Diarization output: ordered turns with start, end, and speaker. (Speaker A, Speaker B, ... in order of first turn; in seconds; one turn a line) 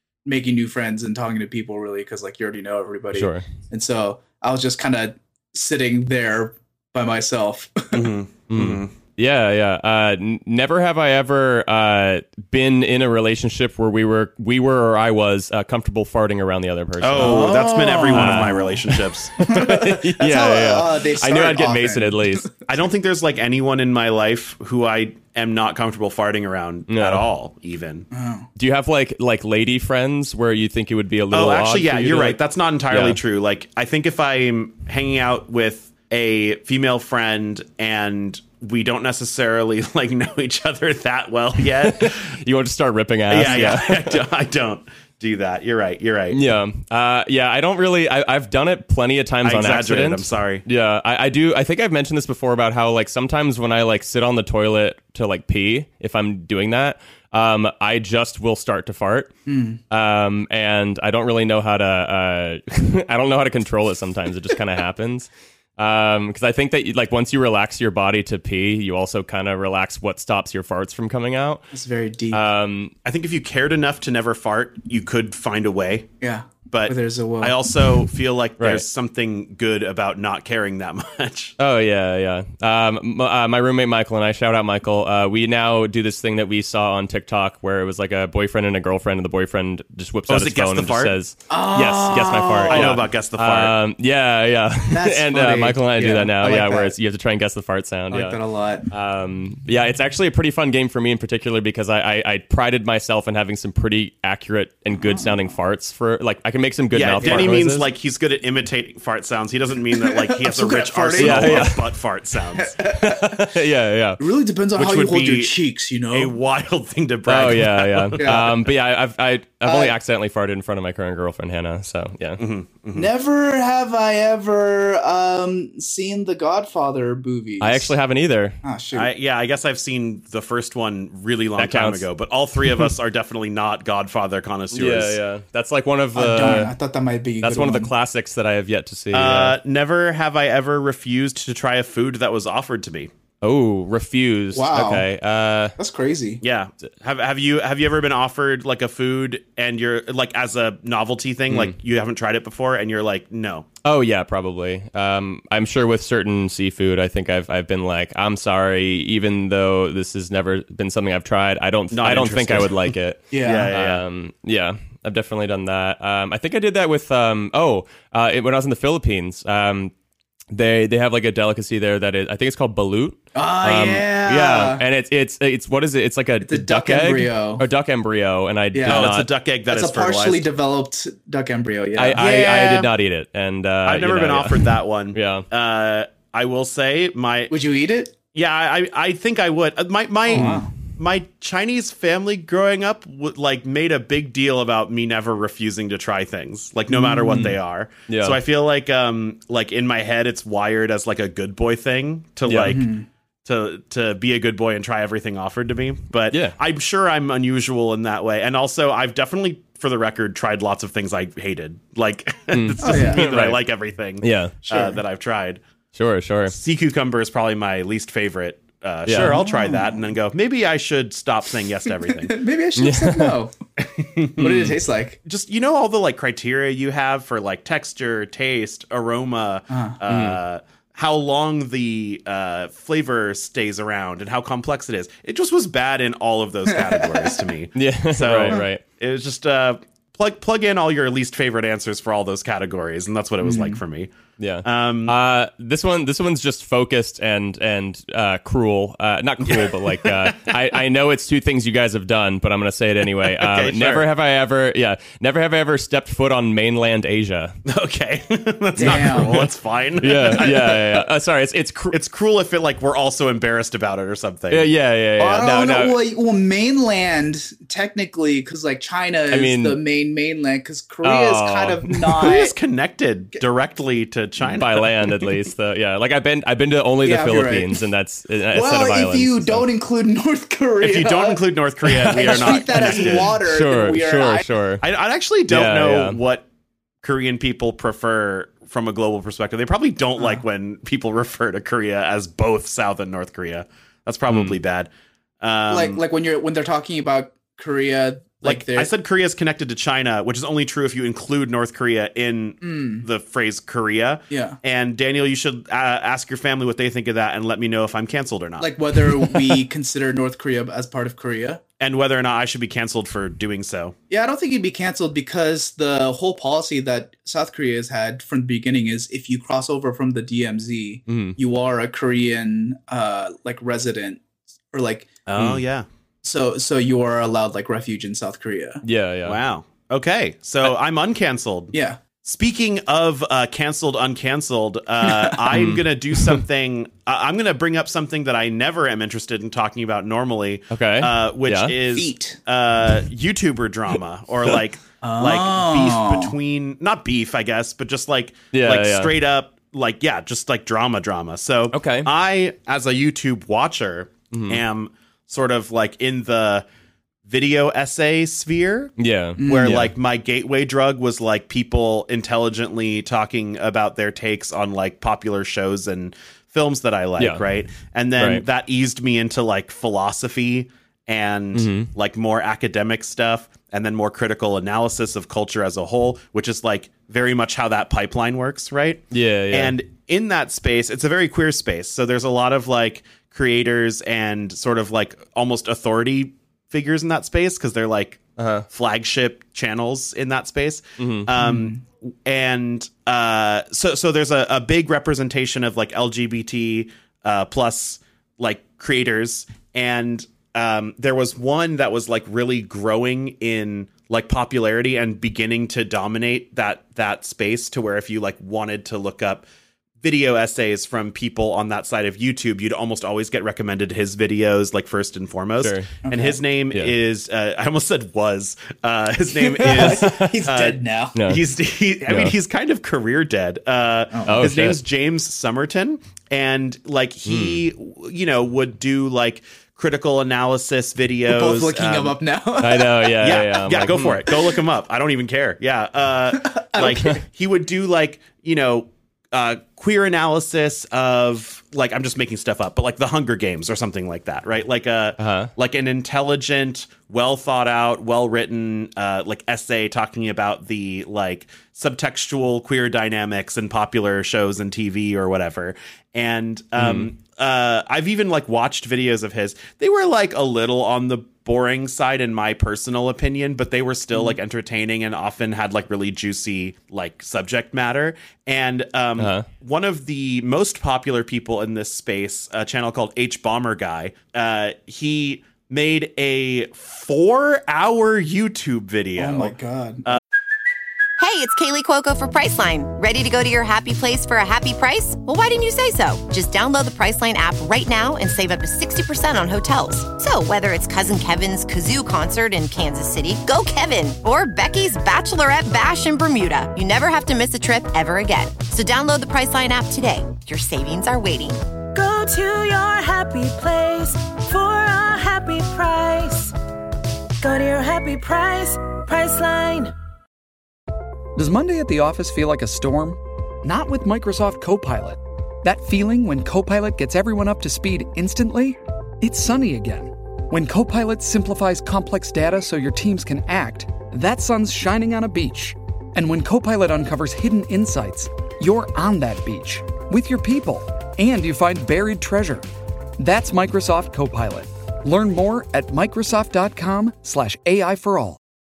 Speaker A: 0.2-8.1
Speaker B: 3.1-3.4
Speaker C: 7.9-8.9
Speaker B: 8.5-17.6
Speaker C: 17.0-19.5
Speaker A: 17.2-22.5
Speaker B: 18.1-22.5
Speaker C: 22.7-28.1
Speaker B: 26.9-27.2
Speaker A: 28.1-28.5
Speaker B: 28.6-33.2
Speaker C: 31.3-42.3
Speaker B: 41.8-44.2
Speaker C: 43.3-46.4
Speaker B: 46.3-59.3
Speaker C: 49.4-50.6
Speaker A: 59.5-59.8
Speaker B: 59.9-71.7
Speaker A: 71.7-72.4
Speaker B: 72.3-72.9
Speaker C: 73.0-76.1
Speaker A: 76.2-77.5
Speaker C: 76.7-81.5
Speaker B: 78.6-78.8
Speaker B: 81.6-98.4
Speaker C: 90.3-91.1
Speaker A: 91.5-93.0
Speaker C: 92.7-93.8
Speaker A: 94.9-96.9
Speaker A: 98.1-98.9
Speaker B: 98.9-107.9
Speaker A: 104.9-105.4
Speaker C: 106.9-112.8
Speaker A: 107.2-107.6
Speaker A: 110.0-111.8
Speaker B: 111.2-111.9
Speaker A: 112.6-113.5
Speaker B: 112.8-114.2
Speaker A: 114.2-116.3
Speaker C: 114.8-115.5
Speaker C: 116.1-118.6
Speaker B: 117.3-122.4
Speaker A: 118.2-118.5
Speaker A: 119.6-119.9
Speaker C: 122.4-123.1
Speaker A: 122.9-127.9
Speaker B: 127.6-128.6
Speaker A: 128.6-129.1
Speaker C: 128.9-135.2
Speaker B: 131.6-132.1
Speaker B: 134.7-136.7
Speaker A: 136.1-137.9
Speaker B: 137.4-139.6
Speaker C: 139.1-143.1
Speaker B: 143.4-145.7
Speaker A: 144.5-145.1
Speaker A: 145.8-146.4
Speaker C: 146.4-153.7
Speaker B: 151.5-151.7
Speaker B: 153.8-169.9
Speaker C: 161.9-164.0
Speaker A: 163.3-163.7
Speaker B: 170.5-179.3
Speaker A: 173.3-174.8
Speaker A: 176.4-177.6
Speaker A: 178.7-179.1
Speaker C: 178.9-180.5
Speaker A: 179.7-182.7
Speaker B: 182.0-185.5
Speaker C: 182.2-182.9
Speaker C: 183.9-187.5
Speaker A: 187.5-188.1
Speaker C: 188.3-202.9
Speaker A: 190.3-190.7
Speaker B: 190.3-190.6
Speaker A: 196.9-197.6
Speaker B: 198.1-198.4
Speaker B: 202.4-202.8
Speaker A: 202.6-203.1
Speaker C: 203.4-215.6
Speaker B: 206.3-206.6
Speaker B: 212.5-213.6
Speaker A: 212.8-213.3
Speaker B: 214.2-214.7
Speaker A: 214.7-214.9
Speaker B: 215.9-216.6
Speaker C: 216.5-222.4
Speaker B: 219.1-219.4
Speaker A: 219.1-220.1
Speaker A: 222.1-223.5
Speaker B: 222.8-223.4
Speaker C: 223.8-244.1
Speaker A: 224.4-225.2
Speaker A: 229.7-230.0
Speaker B: 230.1-230.4
Speaker A: 236.7-237.4
Speaker B: 237.8-238.8
Speaker A: 243.4-243.8
Speaker B: 244.4-257.6
Speaker C: 244.6-245.1
Speaker C: 249.4-250.5
Speaker C: 253.3-254.1
Speaker C: 257.6-261.0
Speaker A: 258.8-259.5
Speaker B: 258.8-262.0
Speaker C: 261.9-264.7
Speaker B: 264.5-266.0
Speaker A: 265.2-272.6
Speaker B: 269.3-269.8
Speaker B: 271.0-272.3
Speaker C: 272.2-274.9
Speaker B: 274.5-279.6
Speaker A: 277.0-277.8
Speaker A: 278.5-281.4
Speaker C: 280.8-283.4
Speaker B: 281.9-284.8
Speaker A: 282.0-284.4
Speaker C: 284.8-286.4
Speaker B: 285.5-286.2
Speaker C: 287.0-294.9
Speaker A: 290.2-290.4
Speaker B: 294.3-294.6
Speaker C: 295.4-296.0
Speaker A: 295.7-298.9
Speaker C: 298.4-309.3
Speaker A: 302.6-303.0
Speaker A: 304.3-304.6
Speaker A: 308.6-311.6
Speaker C: 311.8-313.9
Speaker A: 314.1-325.1
Speaker B: 321.1-321.4
Speaker C: 325.2-325.9
Speaker B: 325.4-325.6
Speaker A: 326.2-328.8
Speaker B: 328.8-329.4
Speaker C: 329.2-356.6
Speaker A: 331.7-332.0
Speaker A: 335.0-335.4
Speaker B: 335.5-336.4
Speaker B: 340.7-341.8
Speaker A: 341.9-342.4
Speaker A: 345.0-346.3
Speaker B: 348.5-349.1
Speaker B: 351.7-352.1
Speaker B: 354.3-354.6
Speaker C: 357.2-409.4
Speaker B: 359.0-359.9
Speaker A: 359.4-359.8
Speaker B: 367.2-367.4
Speaker B: 368.2-368.4
Speaker B: 371.5-371.9
Speaker B: 379.1-379.8
Speaker B: 388.4-388.6
Speaker B: 391.0-391.3
Speaker A: 391.4-391.8
Speaker C: 410.0-432.2
Speaker B: 415.6-415.9
Speaker A: 416.0-416.4
Speaker A: 419.4-421.2
Speaker B: 419.6-420.4
Speaker B: 421.1-421.4
Speaker B: 422.1-422.3
Speaker A: 424.1-424.5
Speaker B: 424.2-424.8
Speaker B: 427.2-427.6
Speaker A: 431.3-433.2
Speaker B: 432.6-434.2
Speaker C: 433.2-479.5
Speaker A: 436.4-437.2
Speaker B: 445.2-445.5
Speaker B: 456.8-457.1
Speaker B: 469.2-469.5
Speaker A: 479.2-480.1
Speaker D: 481.2-501.6
Speaker E: 501.9-506.5
Speaker E: 507.4-509.9
Speaker F: 511.4-532.6
Speaker F: 533.2-538.4